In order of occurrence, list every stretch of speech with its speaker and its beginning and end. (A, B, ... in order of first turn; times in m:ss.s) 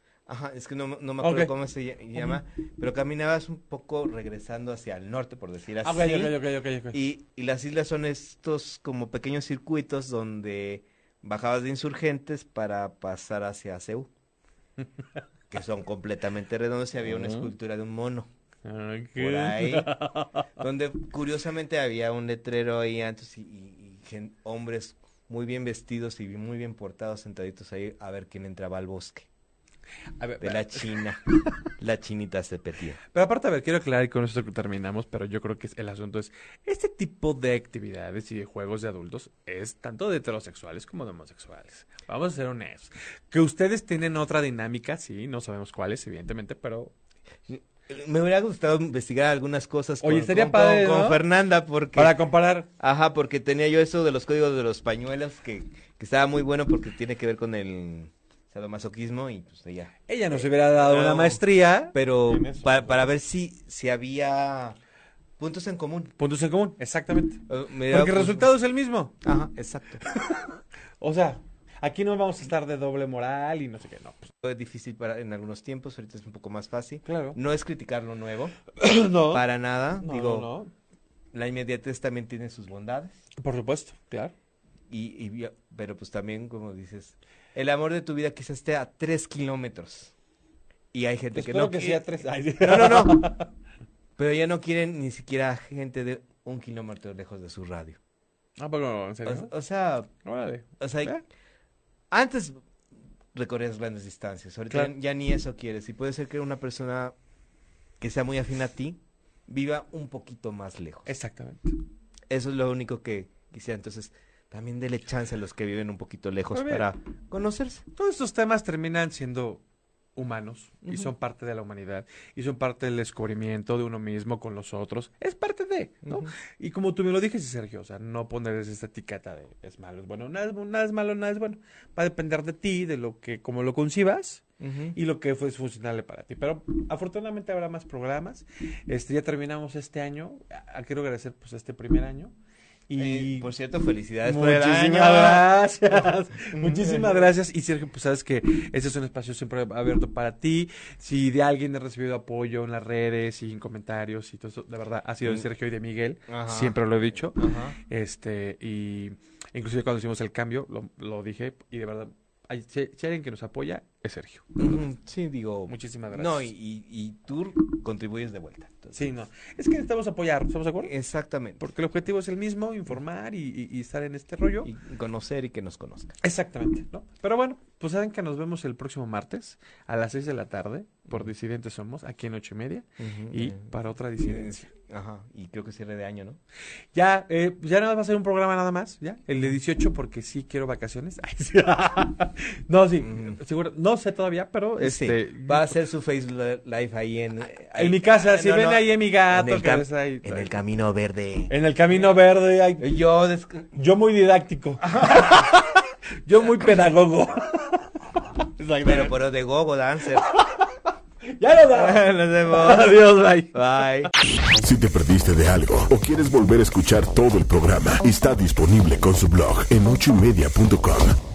0:00.3-0:06.4 A
0:01.2-0:01.5 B
0:02.2-0:02.4 B
0:05.8-0:07.0 B
0:06.9-0:14.1 A
0:15.5-0:18.3 A
0:17.0-0:17.5 B
0:18.6-0:20.5 B
0:19.2-0:19.9 A
0:20.6-0:29.3 A
0:30.2-0:31.6 B
0:30.4-0:31.2 A
0:31.8-0:33.0 A
0:33.1-0:46.9 B
0:47.5-0:52.2 A
0:50.0-0:51.2 B
0:52.0-0:52.7 B
0:52.8-1:04.8 A
1:00.1-1:03.1 B
1:05.4-1:06.1 A
1:06.2-1:09.2 B
1:07.5-1:08.5 A
1:09.2-1:10.0 A
1:10.0-1:14.3 B
1:14.4-1:18.6 A
1:17.0-1:17.4 B
1:18.7-1:19.4 B
1:19.3-1:20.5 A
1:20.0-1:20.7 B
1:21.3-1:23.3 A
1:23.4-1:24.3 B
1:24.9-1:30.1 A
1:30.9-1:32.1 A
1:31.3-1:33.5 B
1:32.6-1:33.3 A
1:34.2-1:38.0 A
1:38.6-1:39.5 B
1:39.2-1:40.1 A
1:40.2-1:41.2 B
1:40.8-1:41.2 A
1:42.1-1:42.6 A
1:43.3-1:47.1 A
1:48.0-1:51.1 A
1:51.1-1:51.8 B
1:52.3-1:57.8 A
1:56.5-1:56.9 B
1:58.0-1:59.6 B
2:00.2-2:14.4 B
2:00.8-2:01.1 A
2:06.0-2:06.3 A
2:14.6-2:15.0 A
2:15.0-2:22.3 B
2:22.9-2:23.5 B
2:23.0-2:26.0 A
2:24.2-2:44.8 B
2:26.5-2:27.2 A
2:35.2-2:35.5 A
2:36.3-2:36.8 A
2:37.4-2:37.8 A
2:44.6-2:49.0 A
2:45.7-2:46.5 B
2:48.9-2:50.9 B
2:50.8-2:51.6 A
2:51.6-2:54.7 B
2:54.6-2:56.2 A
2:56.2-3:04.6 B
3:03.0-3:03.7 A
3:04.2-3:06.4 A
3:06.9-3:15.8 B
3:13.0-3:13.4 A
3:14.8-3:22.2 A
3:17.6-3:20.6 B
3:21.5-3:22.9 B
3:22.8-3:23.7 A
3:23.7-3:29.2 B
3:24.8-3:25.4 A
3:28.8-3:30.3 A
3:30.2-3:34.1 B
3:31.7-3:34.1 A
3:34.5-3:41.2 C